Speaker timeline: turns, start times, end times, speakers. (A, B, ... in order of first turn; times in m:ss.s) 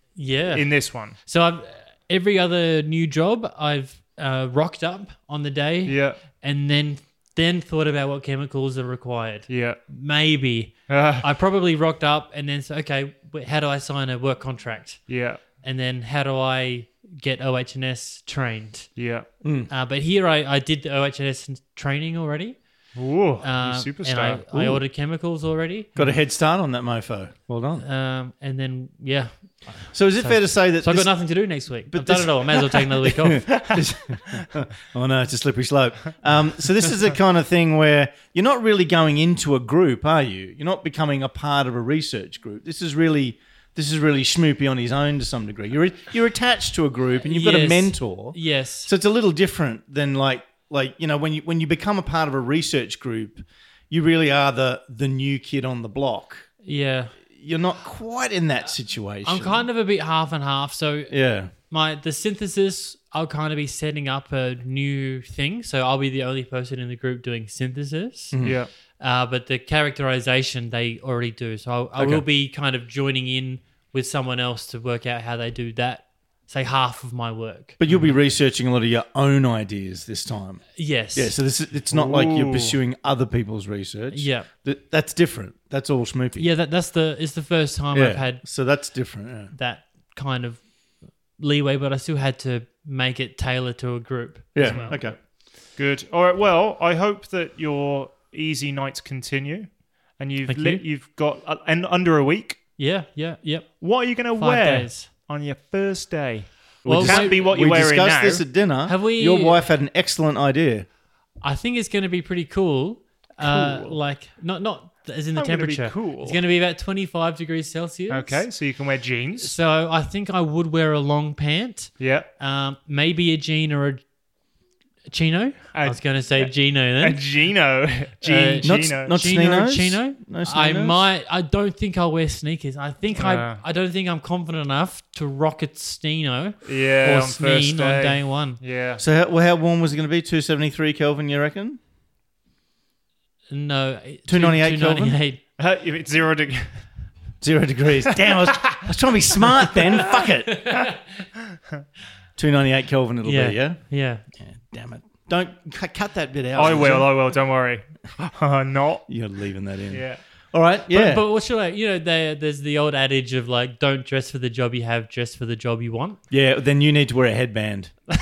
0:00.2-0:19.0 A
0:00.5-0:01.2 B
0:05.8-0:06.2 B
0:09.5-0:09.8 B
0:10.9-0:11.2 B
0:15.1-0:15.4 B
0:19.0-0:19.3 B
0:19.4-0:19.7 C
0:19.7-0:22.6 A
0:22.9-0:24.4 B
0:23.4-0:25.9 A
0:24.5-0:24.8 C
0:26.0-0:27.8 C
0:27.8-0:33.5 A
0:29.9-0:31.3 C
0:31.8-0:56.5 C
0:47.2-0:48.9 A
0:56.6-0:57.1 A
0:57.4-0:59.7 C
0:59.2-1:08.4 A
1:01.1-1:01.5 C
1:08.3-1:08.6 C
1:08.4-1:08.7 B
1:09.0-1:17.8 A
1:12.0-1:12.2 C
1:17.8-1:26.5 C
1:20.8-1:21.3 A
1:21.9-1:22.8 B
1:24.1-1:24.5 A
1:26.4-1:28.4 A
1:27.9-1:29.5 C
1:29.5-1:30.7 A
1:31.3-1:35.0 A
1:34.5-1:35.2 C
1:34.6-1:35.1 B
1:35.8-1:42.6 B
1:40.4-1:40.8 A
1:42.8-1:45.1 A
1:43.8-1:48.4 B
1:46.8-1:50.8 C
1:46.8-1:47.4 A
1:48.8-1:49.6 A
1:51.4-1:58.5 A
1:53.4-1:54.0 B
1:55.4-1:56.4 B
1:58.1-1:59.6 B
1:59.4-2:04.0 A
2:02.0-2:02.3 B
2:05.1-2:07.2 A
2:05.7-2:09.1 B
2:08.2-2:18.6 A
2:08.6-2:11.0 C
2:13.2-2:13.6 B
2:16.6-2:19.0 B
2:19.0-2:21.8 C
2:23.5-2:25.4 A
2:24.3-2:25.2 C
2:25.6-2:26.8 B
2:27.4-2:30.8 C
2:28.2-2:28.8 B
2:30.5-2:31.0 A
2:32.4-2:33.8 C
2:33.2-2:34.2 A
2:34.4-2:37.1 C
2:36.5-2:39.0 B
2:39.1-2:41.2 C
2:39.9-2:40.2 B
2:40.9-2:46.2 A
2:46.3-2:47.9 C